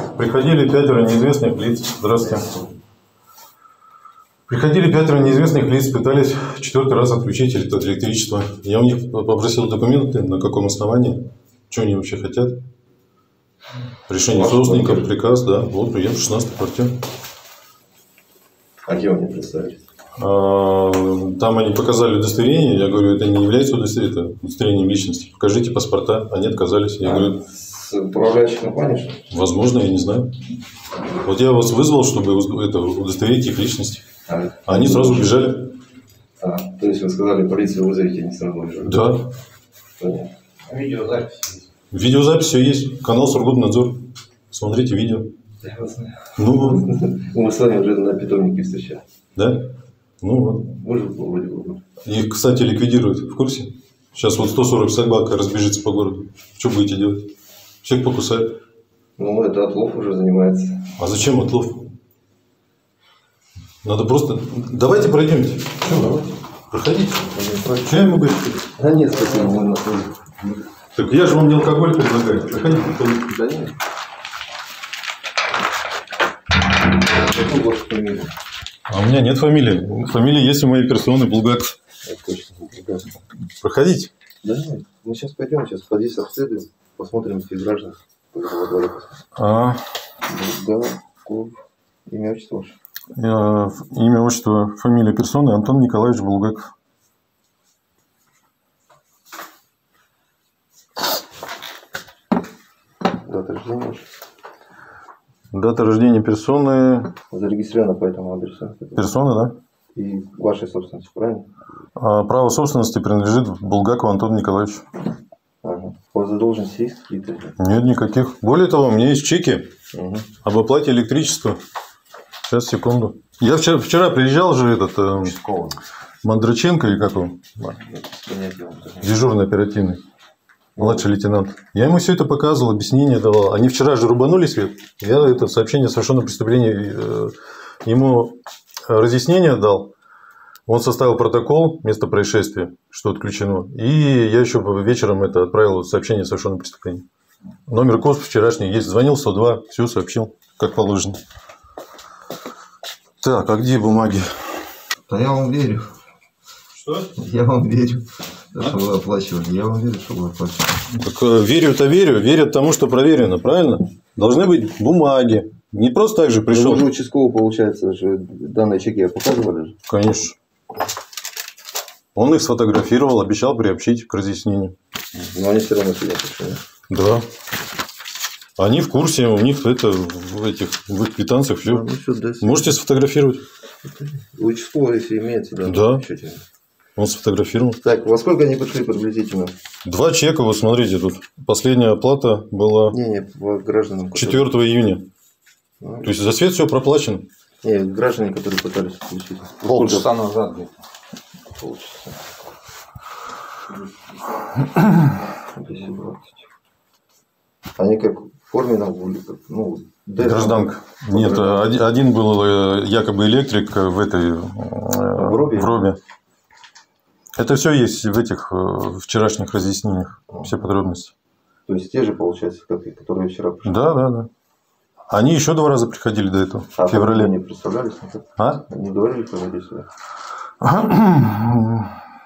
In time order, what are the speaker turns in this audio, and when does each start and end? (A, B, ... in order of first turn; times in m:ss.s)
0:00.2-0:02.5 A
0:02.2-0:02.7 B
0:04.5-0:12.6 A
0:14.1-0:17.0 A
0:14.3-0:15.1 B
0:18.9-0:19.8 B
0:20.2-0:27.4 A
0:27.0-0:29.2 B
0:29.3-0:30.3 A
0:31.2-0:34.0 A
0:34.3-0:35.4 B
0:34.7-0:35.8 A
0:36.4-0:39.1 B
0:38.8-0:39.3 A
0:40.0-0:40.3 B
0:40.7-0:41.4 C
0:40.8-0:41.4 B
0:41.9-0:45.3 A
0:45.6-0:49.0 B
0:46.4-0:46.9 A
0:49.4-0:49.7 A
0:50.2-0:50.7 A
0:50.7-0:51.8 B
0:52.0-0:57.3 A
0:57.8-0:58.6 A
0:59.2-1:00.9 B
1:01.0-1:01.9 A
1:03.8-1:06.2 A
1:05.8-1:06.3 B
1:06.7-1:07.2 A
1:07.3-1:10.1 B
1:07.8-1:08.6 A
1:11.0-1:13.3 A
1:13.1-1:13.7 B
1:17.1-1:18.3 B
1:18.9-1:21.8 A
1:22.0-1:23.1 B
1:23.6-1:24.1 A
1:24.4-1:29.2 B
1:29.4-1:29.8 A
1:30.3-1:32.8 B
1:33.2-1:36.7 A
1:43.1-1:44.0 B
1:45.5-1:47.1 A
1:47.3-1:49.1 B
1:49.0-1:49.6 A
1:49.9-1:51.5 B
1:52.0-1:54.8 A
1:55.6-1:57.6 B
1:57.6-1:59.7 A
1:59.9-2:00.3 B
2:00.4-2:01.6 A
2:02.5-2:05.3 A
2:05.2-2:05.8 C
2:06.2-2:07.8 A
2:07.7-2:09.2 B
2:09.0-2:10.0 A
2:10.8-2:11.1 B
2:10.8-2:19.9 A
2:20.7-2:27.0 A
2:27.7-2:31.2 A
2:33.2-2:34.6 A
2:35.1-2:35.9 B
2:36.7-2:37.1 A
2:37.2-2:40.8 B
2:40.9-2:46.9 A
2:46.5-2:49.8 B
2:49.9-2:50.4 A
2:52.2-2:54.8 A
2:55.2-2:56.6 B
2:56.9-2:57.3 A
2:58.6-3:01.8 A
3:01.6-3:02.8 B
3:02.4-3:03.4 A
3:03.8-3:06.4 B
3:05.6-3:06.0 A
3:07.0-3:07.8 A
3:07.8-3:09.5 B
3:09.8-3:13.0 A
3:12.9-3:14.5 B
3:14.1-3:15.1 A
3:15.8-3:16.1 B
3:16.0-3:17.3 A
3:17.6-3:19.6 B
3:19.6-3:20.7 C
3:19.7-3:20.1 A
3:21.6-3:22.2 B
3:25.4-3:26.4 B
3:27.8-3:31.7 B
3:30.2-3:36.0 A
3:35.2-3:35.8 B
3:37.4-3:41.1 A
3:41.7-3:43.8 B
3:43.6-3:44.3 A
3:45.1-3:47.3 A
3:46.8-3:49.9 B
3:48.4-3:48.6 A
3:50.6-3:52.0 A